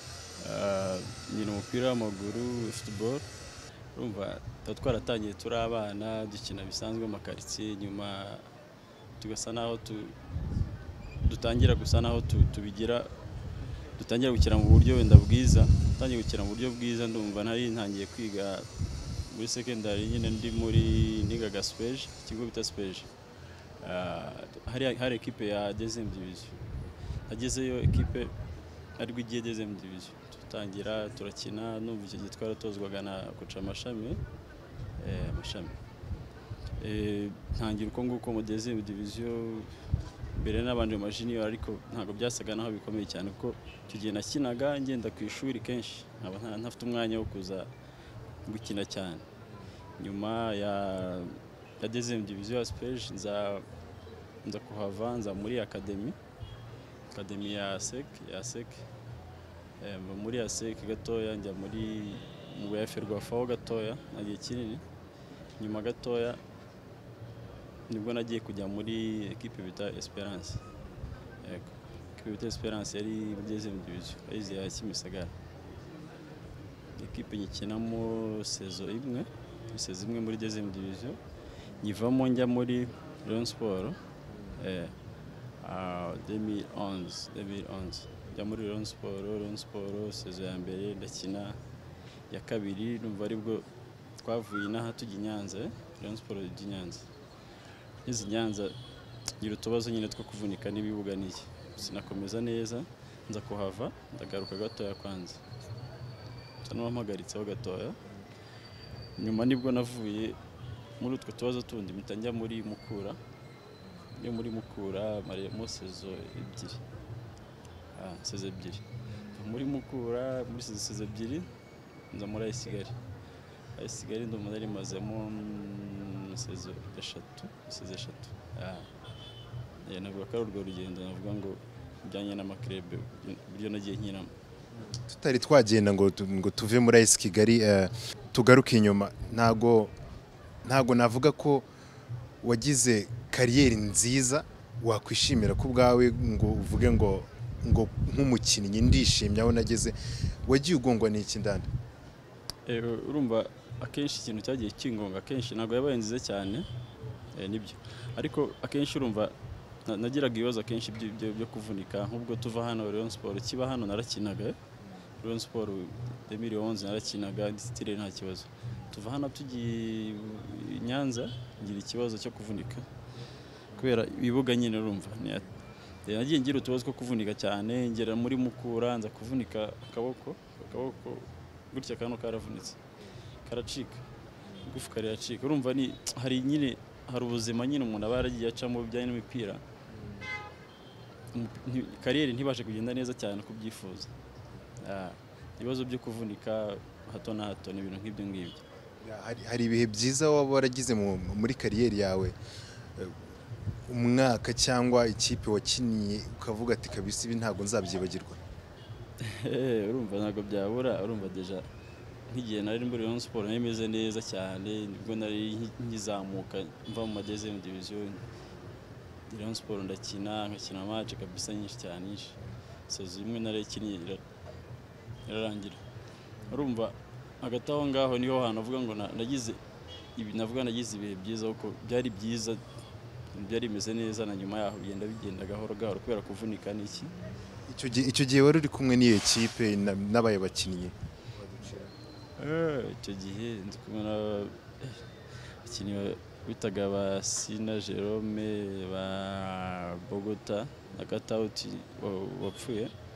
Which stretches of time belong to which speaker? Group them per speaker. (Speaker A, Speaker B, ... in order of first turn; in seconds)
Speaker A: 0.4-3.3, 4.0-8.5, 9.2-10.2, 11.2-13.1, 14.0-23.1, 23.8-26.6, 27.3-28.3, 29.0-34.2, 35.0-35.8, 36.8-39.8, 40.3-47.7, 48.5-49.3, 50.0-53.7, 54.4-56.2, 57.1-58.8, 59.8-64.8, 65.6-66.4, 67.9-70.6, 71.4-75.3, 77.0-81.2, 81.8-84.0, 84.6-84.9, 85.6-91.6, 92.3-93.7, 94.2-97.1, 98.1-98.8, 99.4-105.4, 106.6-108.0, 109.2-110.4, 111.0-113.2, 114.2-116.8, 118.0-121.5, 122.1-123.0, 123.8-128.9, 129.8-134.3, 152.7-156.7, 157.3-159.3, 159.8-164.6, 165.2-172.9, 173.8-175.5, 176.1-182.8, 183.4-184.0, 184.6-189.6, 191.3-194.1, 194.8-198.6, 209.2-211.7, 212.3-218.2, 219.3-222.4, 222.9-224.2, 225.3-225.8, 226.5-229.6, 230.2-232.6, 233.3-237.1, 242.4-245.0, 245.6-252.9
Speaker B: 84.3-84.6, 134.8-139.9, 140.6-141.7, 142.4-151.7, 184.4-184.7, 189.9-190.3, 199.0-202.4, 203.0-203.3, 203.9-208.4, 226.4-226.7, 237.5-241.9